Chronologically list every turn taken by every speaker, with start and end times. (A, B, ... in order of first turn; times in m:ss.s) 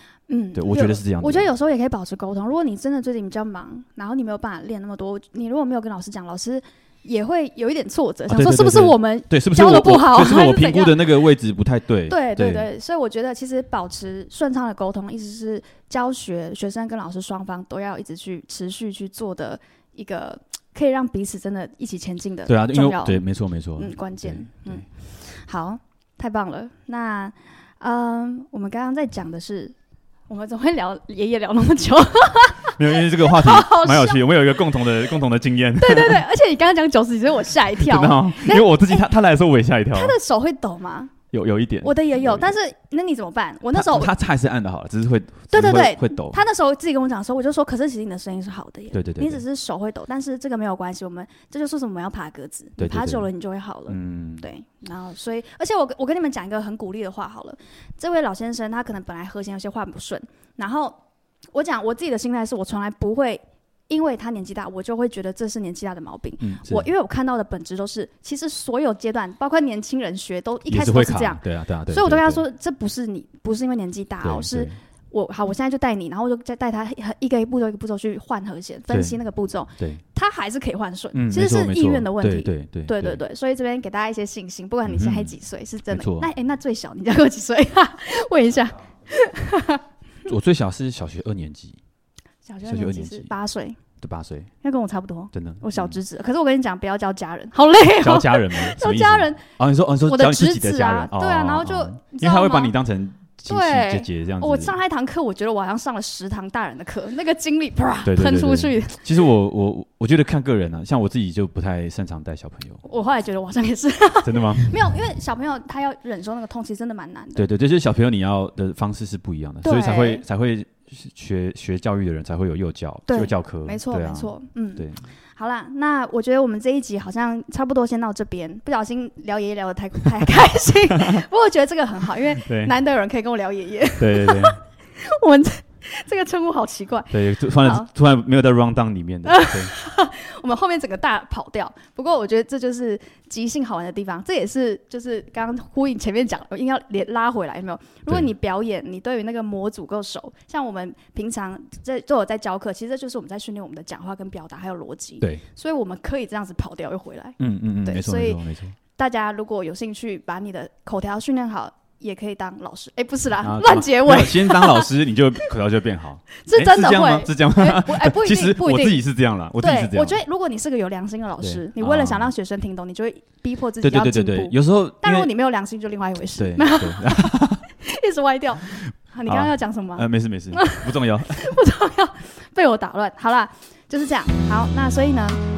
0:00.3-0:11.1 A
0:00.5-0:01.5 B
0:08.3-0:12.7 B
0:12.1-0:23.2 A
0:22.4-0:24.8 B
0:23.8-0:29.7 A
0:30.3-0:34.3 A
0:32.8-0:36.2 B
0:35.8-0:39.0 A
0:37.8-0:40.2 B
0:39.9-0:41.1 A
0:41.3-0:42.5 B
0:41.8-0:44.1 A
0:43.7-0:46.4 B
0:45.5-1:01.0 A
0:48.9-0:49.4 B
0:52.8-0:53.3 B
0:53.9-0:54.5 B
1:01.5-1:29.8 A
1:06.4-1:06.9 B
1:10.7-1:12.4 B
1:14.2-1:14.7 B
1:18.9-1:19.2 B
1:21.1-1:23.2 B
1:24.8-1:25.3 B
1:25.9-1:26.3 B
1:30.2-1:31.8 B
1:32.4-1:33.8 A
1:32.6-1:33.3 B
1:34.0-1:34.5 B
1:34.6-1:39.4 A
1:35.3-1:36.0 B
1:38.0-1:44.8 B
1:40.0-1:42.7 A
1:43.5-1:49.1 A
1:48.0-1:52.8 B
1:52.8-1:57.5 A
1:54.2-1:54.8 B
1:57.3-2:05.0 B
1:59.6-2:00.2 A
2:03.1-2:17.9 A
2:10.9-2:11.2 B
2:12.4-2:12.7 B
2:14.0-2:14.6 B
2:17.1-2:19.7 B
2:19.2-2:38.4 A
2:37.4-2:38.8 B
2:39.0-2:44.9 A
2:43.4-2:50.2 B
2:46.4-2:49.0 A
2:49.6-3:05.4 A
2:51.4-2:52.3 B
2:53.8-2:55.3 B
2:56.3-2:57.6 B
2:59.2-3:01.5 B